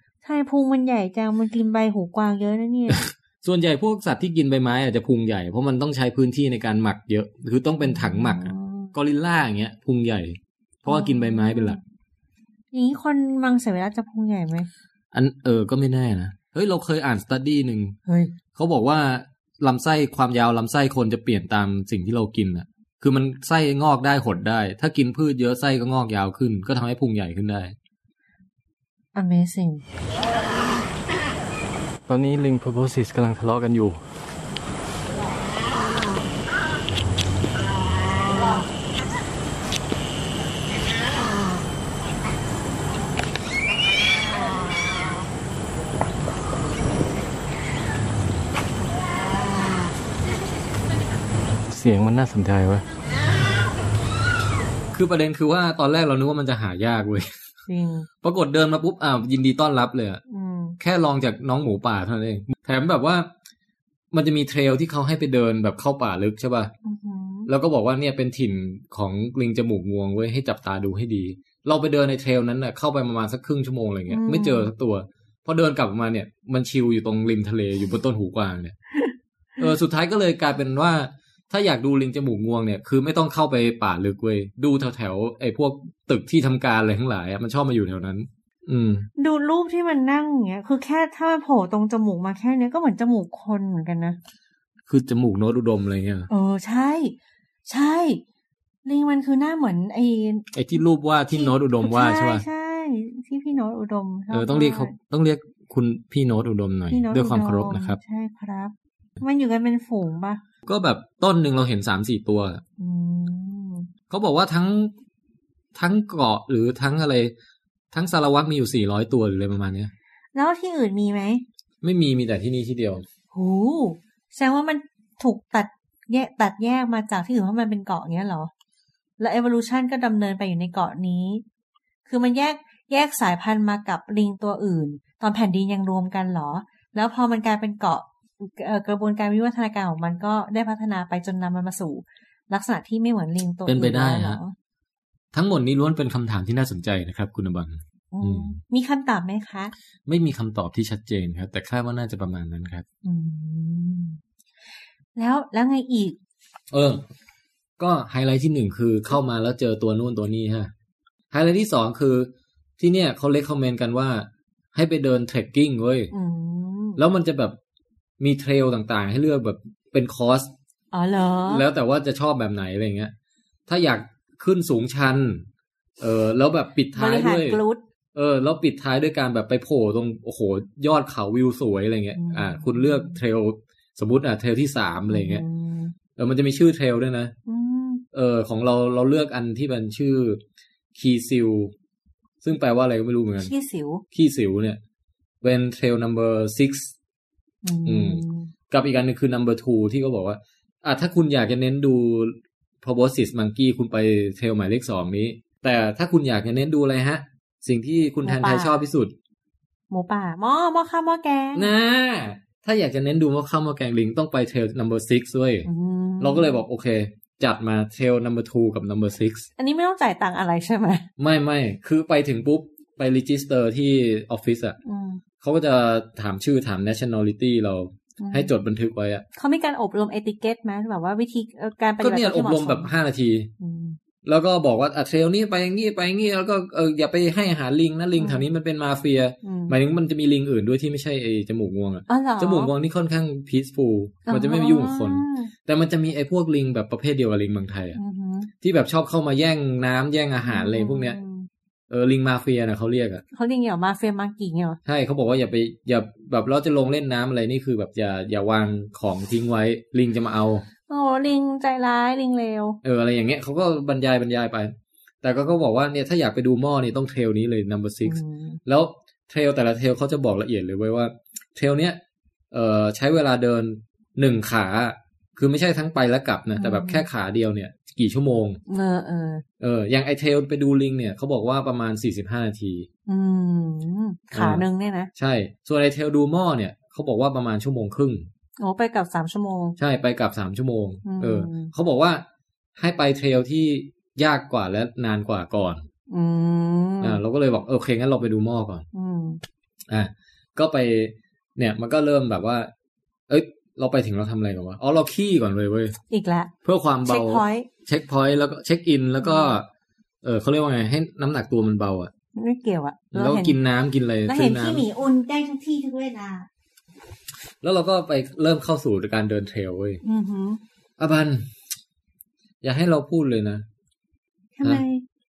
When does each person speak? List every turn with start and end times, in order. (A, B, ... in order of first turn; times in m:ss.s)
0:00.2-0:03.1 A
0:02.9-0:11.8 B
0:07.8-0:08.9 A
0:10.9-0:11.8 A
0:12.7-0:14.7 A
0:15.1-0:18.0 B
0:18.1-0:18.4 A
0:18.5-0:27.8 B
0:29.1-0:29.8 A
0:32.1-0:34.0 C
0:38.4-0:38.6 A
0:51.7-0:52.9 C
0:54.9-0:57.3 B
0:57.7-0:58.1 A
0:58.2-1:00.2 B
1:00.3-1:00.8 A
1:00.8-1:03.3 B
1:04.1-1:06.7 B
1:06.8-1:07.5 A
1:07.5-1:18.8 B
1:14.1-1:14.7 A
1:18.9-1:19.6 A
1:19.6-1:29.1 B
1:29.2-1:34.2 A
1:34.9-1:36.3 B
1:36.3-1:37.1 A
1:37.7-1:38.2 A
1:38.8-1:40.5 A
1:40.5-1:42.4 B
1:41.3-1:44.9 A
1:44.3-1:48.0 B
1:46.9-1:50.4 A
1:50.6-1:52.6 B
1:52.8-1:53.9 A
1:54.1-1:54.9 B
1:55.7-1:57.3 B
1:57.9-1:59.9 B
2:00.3-2:01.4 A
2:01.8-2:03.0 B
2:03.3-2:08.5 A
2:09.2-2:11.4 A
2:12.0-2:24.5 A
2:23.6-2:24.4 B
2:25.3-2:28.6 B
2:28.1-2:29.7 A
2:30.0-2:32.8 B
2:33.0-2:34.2 A
2:35.1-2:36.2 A
2:36.7-2:37.0 B
2:37.8-2:40.7 B
2:41.3-2:46.1 B
2:46.1-2:47.0 A
2:47.0-2:47.6 B
2:48.2-2:50.5 B
2:50.9-2:51.6 A
2:51.5-2:53.1 B
2:53.7-2:55.4 B
2:56.0-2:57.6 B
2:56.9-2:57.8 A
2:58.1-3:05.4 B
3:02.2-3:03.2 A
3:05.1-3:06.0 A
3:06.2-3:07.3 B
3:07.5-3:08.0 A
3:08.1-3:10.4 B
3:10.9-3:11.7 B
3:12.4-3:13.5 B
3:13.4-3:14.0 A
3:14.1-3:14.8 B
3:15.4-3:16.9 B
3:17.6-3:18.5 A
3:17.8-3:29.1 B
3:28.2-3:28.8 A
3:29.9-3:31.7 A
3:31.5-3:35.7 B
3:35.6-3:36.6 A
3:36.2-3:39.5 B
3:39.6-3:41.1 A
3:41.2-3:44.8 B
3:44.8-3:45.2 A
3:45.4-3:49.2 B
3:48.2-3:48.5 A
3:49.4-3:52.9 A
3:52.0-3:53.5 B
3:53.6-3:54.0 A
3:54.2-4:08.0 B
3:58.2-3:58.4 A
3:59.4-3:59.8 A
4:02.1-4:02.7 A
4:04.3-4:05.5 A
4:07.9-4:08.5 A
4:08.6-4:11.2 B
4:10.4-4:11.5 A
4:11.9-4:13.2 B
4:13.3-4:14.8 A
4:14.8-4:20.7 B
4:20.9-4:22.8 A
4:22.8-4:38.6 B
4:28.0-4:28.6 A
4:36.6-4:37.0 A
4:38.7-4:39.4 A
4:39.6-4:42.9 B
4:43.1-4:45.1 A
4:44.3-4:44.6 B
4:45.2-4:48.3 B
4:48.6-4:49.8 A
4:49.8-4:52.2 B
4:51.0-4:51.7 A
4:52.8-4:55.9 B
4:56.1-4:57.2 A
4:57.0-4:58.8 B
4:58.9-4:59.4 A
4:59.9-5:02.7 B
5:03.3-5:06.0 B
5:06.1-5:06.5 A
5:06.6-5:09.7 B
5:07.0-5:07.7 A
5:09.2-5:09.6 A
5:10.2-5:12.1 B
5:12.4-5:13.6 A
5:13.1-5:14.9 B
5:14.2-5:16.5 A
5:17.6-5:20.0 B
5:20.0-5:20.6 A
5:21.0-5:21.5 B
5:22.6-5:23.6 B
5:24.6-5:25.0 A